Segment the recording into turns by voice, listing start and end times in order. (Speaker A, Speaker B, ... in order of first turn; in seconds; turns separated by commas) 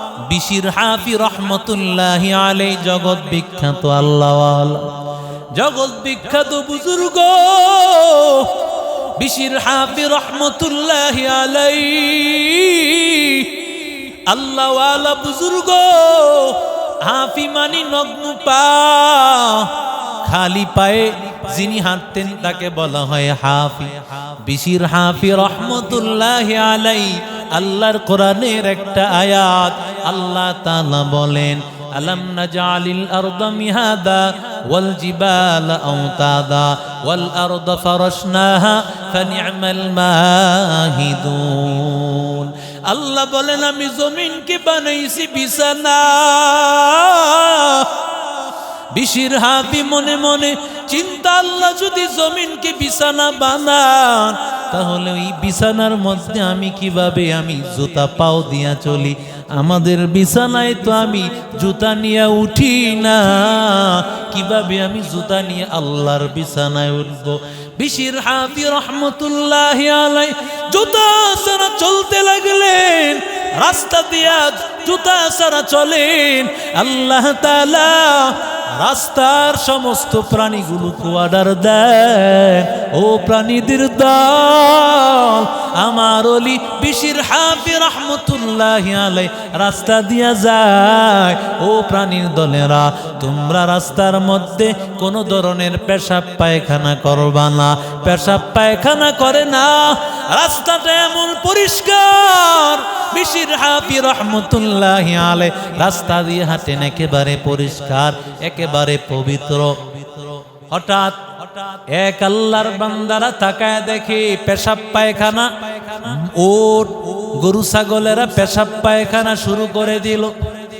Speaker A: 0.2-4.9, Speaker A: 5.5-13.6, Speaker A: 14.2-48.1, Speaker A: 48.9-120.4